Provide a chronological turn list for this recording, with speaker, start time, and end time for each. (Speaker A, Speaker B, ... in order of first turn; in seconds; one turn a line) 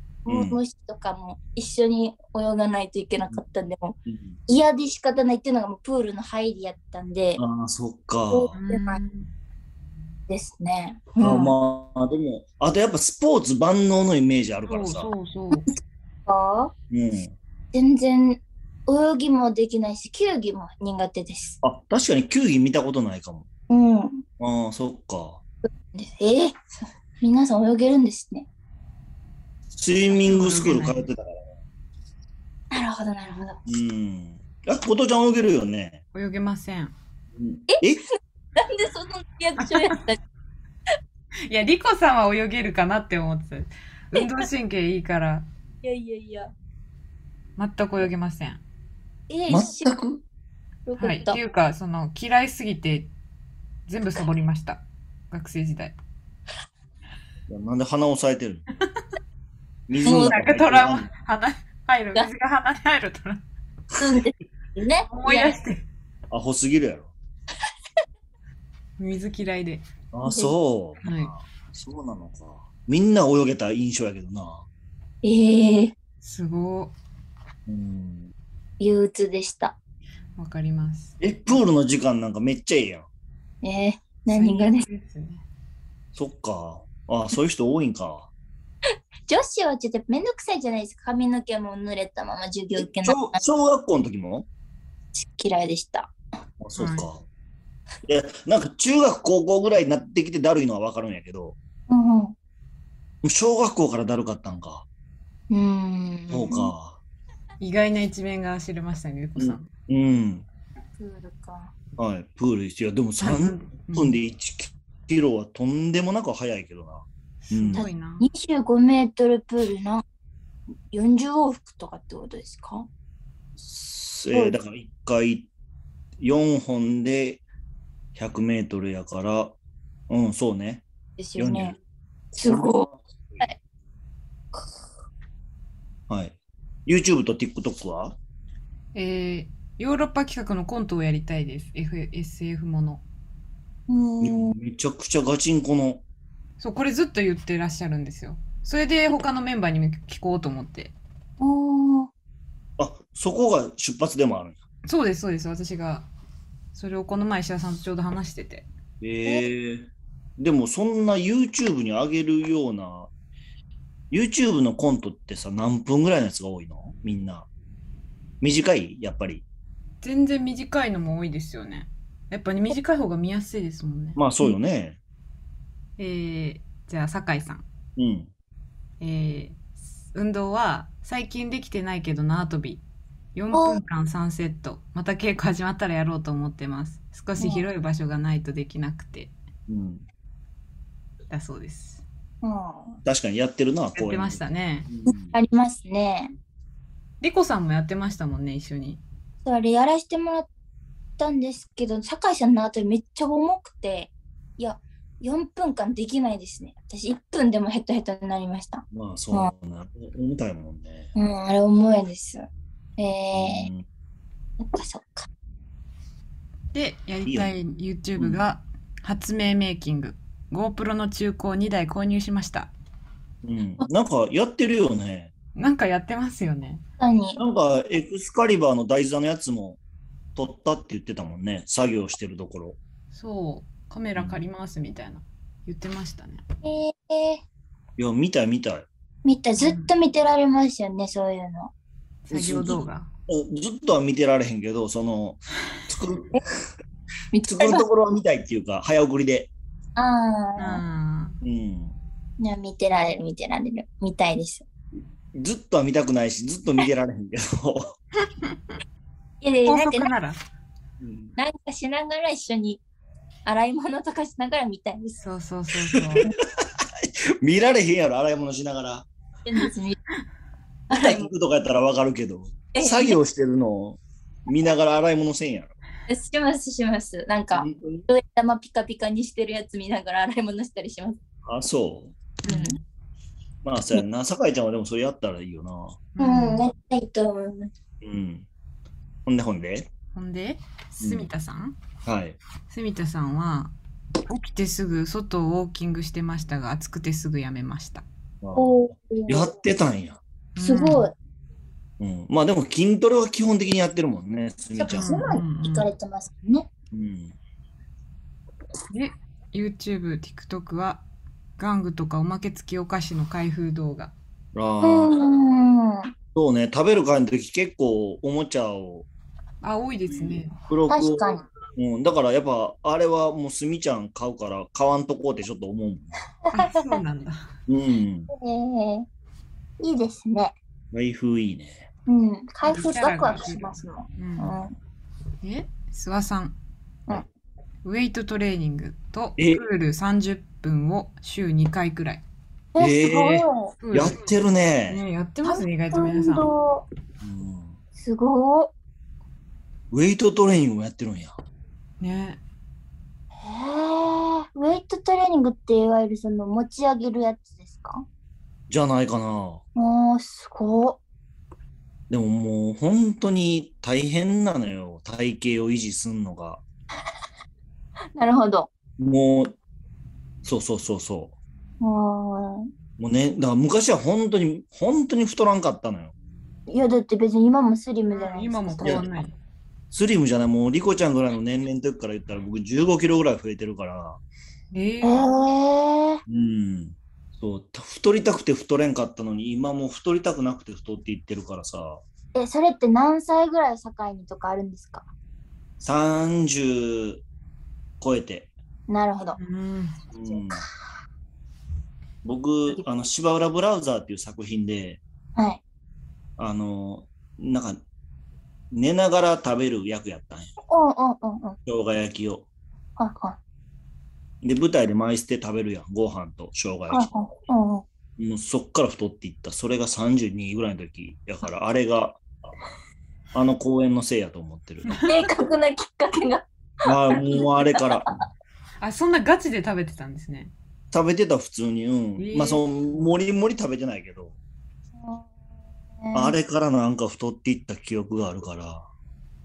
Speaker A: 0.2-7.4
Speaker B: 0.3-0.6
Speaker B: 4.1-4.4
Speaker B: 7.4-8.5
Speaker A: 8.3-9.0
Speaker C: 8.6-9.3
Speaker A: 10.3-11.6
Speaker B: 11.2-15.1
Speaker C: 14.7-15.7
Speaker A: 16.3-16.7
Speaker B: 16.9-17.4
Speaker A: 17.7-21.6
Speaker B: 21.6-23.5
Speaker A: 23.7-24.2
Speaker B: 24.4-25.4
Speaker A: 25.9-28.5
Speaker B: 29.7-31.5
Speaker C: 30.1-31.1
Speaker A: 32.7-33.6
Speaker B: 33.7-36.0
Speaker C: 36.1-37.0
Speaker B: 37.4-38.0
Speaker A: 37.7-40.2
Speaker C: 39.6-40.0
Speaker C: 41.5-45.5
Speaker A: 45.8-46.5
Speaker C: 47.6-48.6
Speaker A: 49.3-50.0
Speaker B: 49.5-50.2
Speaker A: 50.9-51.4
Speaker C: 51.0-53.1
Speaker C: 53.9-56.0
Speaker B: 57.5-58.6
Speaker B: 59.9-61.1
Speaker A: 60.0-60.4
Speaker C: 60.1-63.4
Speaker A: 64.0-65.6
Speaker C: 65.1-65.8
Speaker B: 66.3-67.1
Speaker C: 69.0-69.8
Speaker B: 70.1-74.7
Speaker A: 70.3-70.5
Speaker C: 71.0-71.3
Speaker A: 75.2-76.0
Speaker C: 76.2-77.0
Speaker B: 77.7-78.3
Speaker A: 78.8-79.8
Speaker C: 80.4-81.2
Speaker B: 81.2-83.1
Speaker A: 83.6-84.9
Speaker C: 84.3-85.4
Speaker B: 86.2-88.3
Speaker A: 89.3-93.4
Speaker B: 92.8-94.5
Speaker A: 95.1-96.1
Speaker B: 96.6-97.2
Speaker C: 96.8-97.1
Speaker B: 98.0-101.6
Speaker A: 101.9-102.3
Speaker B: 103.2-104.9
Speaker A: 105.5-106.7
Speaker B: 106.3-107.0
Speaker C: 107.6-109.7
Speaker B: 109.4-110.5
Speaker A: 111.0-111.7
Speaker B: 112.0-117.8
Speaker C: 113.2-114.2
Speaker C: 117.5-118.3
Speaker A: 117.8-120.0
Speaker A: 120.9-122.9
Speaker B: 123.6-125.5
Speaker A: 124.3-124.6
Speaker B: 126.2-127.4
Speaker B: 128.2-129.6
Speaker B: 130.1-130.8
Speaker A: 131.2-131.8
Speaker B: 131.4-131.8
Speaker A: 132.3-133.6
Speaker B: 132.4-133.4
Speaker B: 136.1-138.2
Speaker C: 138.9-143.0
Speaker A: 143.9-144.6
Speaker B: 144.2-146.0
Speaker C: 146.6-150.9
Speaker A: 151.4-152.1
Speaker B: 152.8-154.6
Speaker C: 154.9-156.1
Speaker C: 156.7-158.7
Speaker B: 159.0-163.1
Speaker B: 164.1-167.5
Speaker B: 168.4-169.4
Speaker C: 170.0-174.2
Speaker B: 174.2-175.0
Speaker C: 176.0-177.7
Speaker B: 178.0-178.3
Speaker C: 179.0-182.8
Speaker C: 183.3-189.3
Speaker A: 183.5-183.8
Speaker A: 187.4-187.7
Speaker B: 189.7-190.0
Speaker C: 191.3-192.0
Speaker A: 192.4-193.0
Speaker B: 193.1-195.3
Speaker C: 193.9-194.9
Speaker A: 195.3-196.3
Speaker C: 197.2-199.0
Speaker A: 199.4-200.5
Speaker A: 201.2-209.5
Speaker B: 208.9-211.1
Speaker A: 211.2-212.5
Speaker A: 213.0-213.7
Speaker B: 213.3-213.8
Speaker A: 214.6-215.3
Speaker C: 216.7-222.7
Speaker B: 217.3-217.5
Speaker B: 223.4-225.3
Speaker C: 225.6-226.8
Speaker A: 227.0-227.4
Speaker B: 227.4-229.8
Speaker B: 230.4-232.8
Speaker C: 233.1-236.4
Speaker B: 234.2-234.4
Speaker A: 236.6-237.4
Speaker B: 238.0-238.9
Speaker A: 239.2-241.7
Speaker C: 239.6-239.9
Speaker C: 242.3-243.1
Speaker B: 242.3-246.4
Speaker A: 247.3-247.9
Speaker B: 247.5-249.5
Speaker A: 250.0-250.8
Speaker C: 250.6-251.4
Speaker B: 251.4-251.9
Speaker A: 252.4-254.7
Speaker B: 255.3-257.9
Speaker C: 258.4-258.8
Speaker A: 259.4-260.1
Speaker C: 259.7-260.4
Speaker B: 261.0-261.4
Speaker A: 261.4-262.8
Speaker A: 263.5-265.2
Speaker C: 265.2-266.2
Speaker B: 265.9-269.1
Speaker A: 269.4-270.0
Speaker A: 270.9-271.3
Speaker B: 270.9-275.7
Speaker A: 272.7-273.2
Speaker A: 276.1-281.2
Speaker B: 277.5-278.1
Speaker B: 281.5-282.2
Speaker C: 282.4-282.8
Speaker A: 282.4-282.8
Speaker B: 283.6-286.0
Speaker C: 286.1-286.6
Speaker A: 286.2-287.7
Speaker B: 288.0-288.5
Speaker B: 289.3-289.9
Speaker C: 290.1-291.8
Speaker B: 291.0-291.3
Speaker B: 292.1-292.4
Speaker C: 292.7-293.7
Speaker C: 294.3-298.1
Speaker B: 298.4-300.2
Speaker A: 298.6-299.5
Speaker C: 300.6-301.1
Speaker A: 300.6-301.1
Speaker B: 302.0-305.2
Speaker A: 304.8-306.7
Speaker C: 304.9-305.9
Speaker B: 306.9-307.4
Speaker C: 308.9-311.0
Speaker C: 311.6-314.1
Speaker B: 314.5-315.2
Speaker A: 314.8-316.1
Speaker B: 316.3-319.1
Speaker C: 319.6-320.6
Speaker B: 320.1-326.1
Speaker A: 320.9-321.4
Speaker A: 326.5-327.0
Speaker C: 326.5-327.5
Speaker B: 327.7-328.3
Speaker A: 328.3-329.1
Speaker A: 329.8-330.6
Speaker B: 330.9-331.9
Speaker A: 332.1-334.7
Speaker C: 332.7-334.6
Speaker C: 335.4-336.6
Speaker C: 337.8-342.2
Speaker B: 339.4-339.6
Speaker A: 342.8-343.8
Speaker B: 342.8-345.0
Speaker C: 343.8-344.2
Speaker C: 344.9-346.5
Speaker A: 345.4-346.9
Speaker B: 347.2-347.8
Speaker A: 347.9-348.7
Speaker B: 349.9-351.4
Speaker C: 352.0-352.4
Speaker A: 353.4-358.1
Speaker B: 358.7-359.6
Speaker A: 359.8-361.0
Speaker B: 362.1-366.6
Speaker A: 368.2-368.7
Speaker B: 369.0-369.5
Speaker B: 370.4-371.4
Speaker A: 371.8-372.7
Speaker B: 373.0-376.1
Speaker A: 376.7-379.1
Speaker C: 378.1-379.3
Speaker B: 378.8-379.1
Speaker B: 379.9-384.2
Speaker C: 384.7-385.3
Speaker A: 385.0-386.2
Speaker B: 386.3-392.0
Speaker A: 392.4-395.1
Speaker B: 395.8-397.2
Speaker B: 398.0-398.5
Speaker A: 398.9-399.4
Speaker C: 399.4-400.0
Speaker B: 400.1-400.6
Speaker A: 400.3-400.6
Speaker B: 402.2-405.0
Speaker A: 405.4-405.6
Speaker B: 406.4-407.8
Speaker B: 408.7-410.5
Speaker A: 410.7-411.6
Speaker B: 411.7-412.5
Speaker A: 413.0-413.4
Speaker B: 414.4-417.1
Speaker A: 416.9-417.9
Speaker B: 418.2-422.2
Speaker B: 423.3-425.0
Speaker A: 425.1-428.1
Speaker B: 426.9-428.1
Speaker C: 428.8-430.5
Speaker B: 430.9-434.4
Speaker C: 432.2-432.6
Speaker A: 435.0-435.3
Speaker A: 436.0-436.4
Speaker B: 436.1-438.9